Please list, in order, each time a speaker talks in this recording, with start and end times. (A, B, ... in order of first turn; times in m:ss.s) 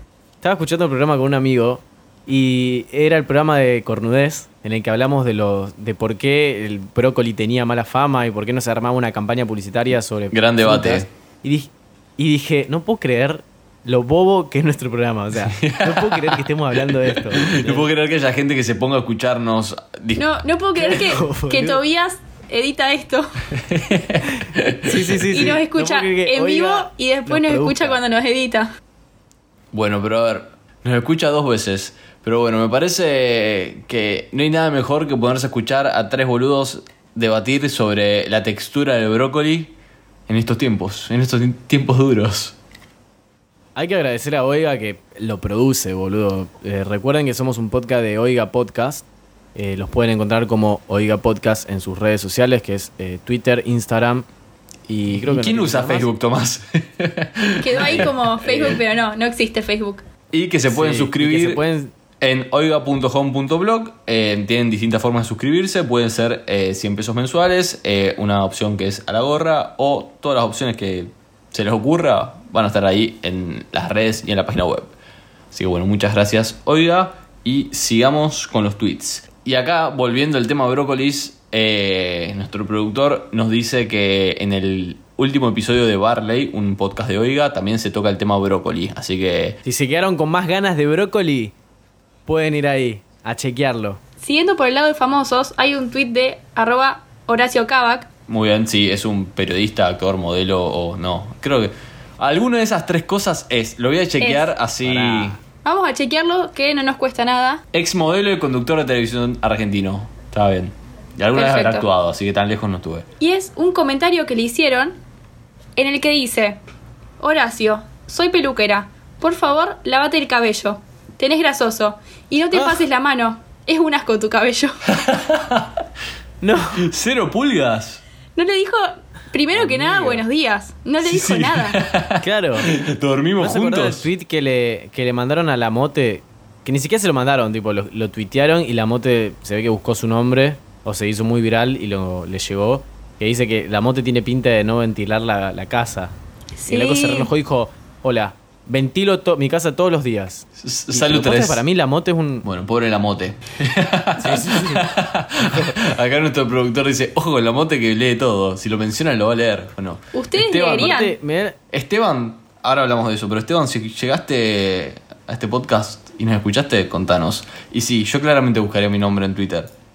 0:00.4-0:17.9 A
0:10.3-0:11.1 B
0:15.5-0:20.3 B
0:20.2-0:23.3 C
0:20.8-0:21.8 A
0:23.6-0:25.0 B
0:24.8-0:28.0 A
0:25.3-0:28.7 C
0:29.7-0:39.8 B
0:40.3-0:42.6 B
0:43.8-0:54.3 A
0:54.9-0:56.1 A
0:55.1-0:58.8 B
0:57.6-1:00.0 C
1:00.3-1:01.6 B
1:00.7-1:01.9 A
1:02.2-1:14.9 B
1:15.5-1:29.6 B
1:29.6-1:31.5 A
1:32.3-1:34.0 A
1:34.2-1:38.1 C
1:38.3-1:45.4 B
1:44.2-1:44.5 C
1:44.8-1:45.4 A
1:45.6-1:47.6 C
1:47.7-1:53.1 B
1:51.3-1:51.9 C
1:53.2-1:55.0 C
1:55.8-1:56.6 C
1:57.2-2:04.8 C
2:04.9-2:05.8 B
2:06.4-2:06.9 A
2:06.8-2:08.0 B
2:08.4-2:11.8 C
2:09.5-2:10.2 A
2:11.0-2:14.1 B
2:12.2-2:12.7 A
2:13.4-2:26.1 A
2:26.6-2:27.3 C
2:26.7-2:32.5 A
2:30.6-2:31.6 B
2:32.4-2:40.9 B
2:34.2-2:34.9 A
2:40.1-2:41.2 C
2:40.5-2:41.6 A
2:41.7-2:49.7 B